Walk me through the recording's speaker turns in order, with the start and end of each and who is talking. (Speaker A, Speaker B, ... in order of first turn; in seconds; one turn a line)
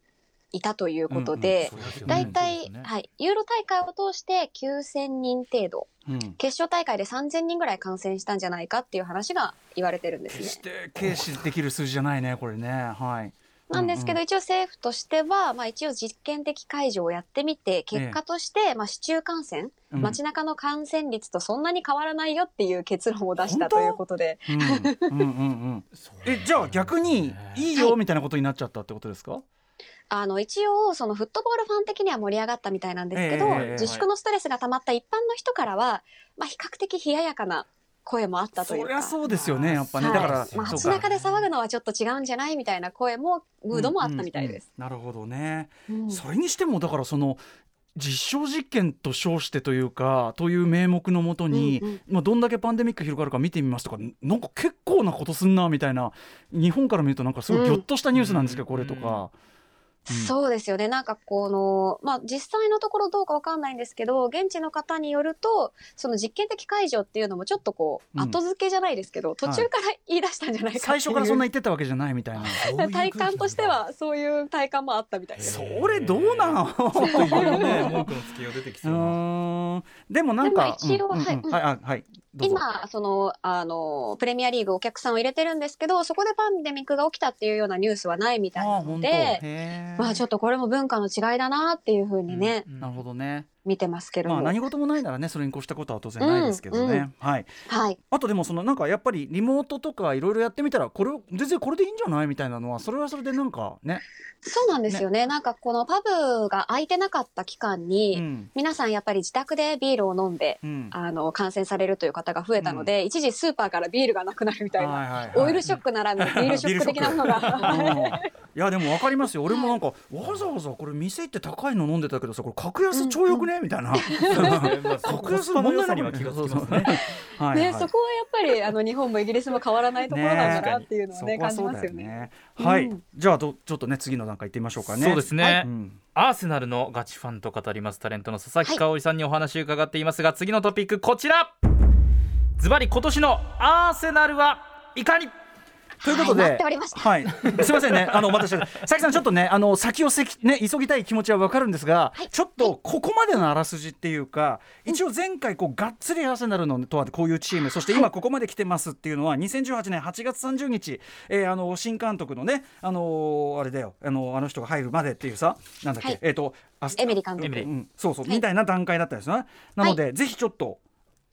Speaker A: 0.5-10.6
Speaker B: 1.1-2.4
Speaker C: 1.6-2.9
Speaker B: 6.0-6.4
Speaker B: 10.3-14.2
Speaker A: 13.7-25.1
Speaker B: 17.9-18.2
Speaker B: 19.9-20.2
Speaker B: 23.4-29.4
Speaker C: 26.0-27.7
Speaker A: 30.1-39.2
Speaker B: 33.1-33.9
Speaker C: 33.4-34.1
Speaker B: 38.6-41.0
Speaker C: 39.2-41.5
Speaker A: 40.0-44.6
Speaker B: 43.7-47.4
Speaker A: 45.9-46.2
Speaker B: 47.9-59.3
Speaker A: 51.5-52.0
Speaker A: 57.5-57.8
Speaker C: 58.1-59.2
Speaker A: 60.1-71.4
Speaker B: 70.8-72.6
Speaker C: 72.4-73.8
Speaker A: 72.5-75.6
Speaker C: 75.4-79.2
Speaker B: 75.4-78.1
Speaker A: 77.0-77.9
Speaker B: 78.8-82.6
Speaker A: 80.4-81.6
Speaker A: 82.4-89.4
Speaker B: 88.5-90.2
Speaker A: 90.0-92.6
Speaker C: 92.3-93.0
Speaker B: 92.8-93.5
Speaker A: 93.6-94.5
Speaker B: 94.2-97.5
Speaker A: 96.2-97.0
Speaker A: 97.7-98.0
Speaker B: 98.1-104.0
Speaker A: 104.4-118.3
Speaker B: 108.1-108.5
Speaker B: 110.6-110.9
Speaker B: 112.6-112.9
Speaker B: 114.8-115.7
Speaker B: 116.2-127.9
Speaker C: 117.4-118.0
Speaker A: 119.5-119.8
Speaker A: 122.9-125.0
Speaker C: 124.3-127.0
Speaker A: 126.8-133.0
Speaker B: 130.1-136.0
Speaker C: 130.4-130.8
Speaker C: 134.8-141.6
Speaker C: 142.6-145.3
Speaker A: 146.0-147.0
Speaker B: 146.0-170.8
Speaker C: 147.4-148.0
Speaker A: 152.2-152.7
Speaker A: 166.9-167.7
Speaker C: 167.4-167.7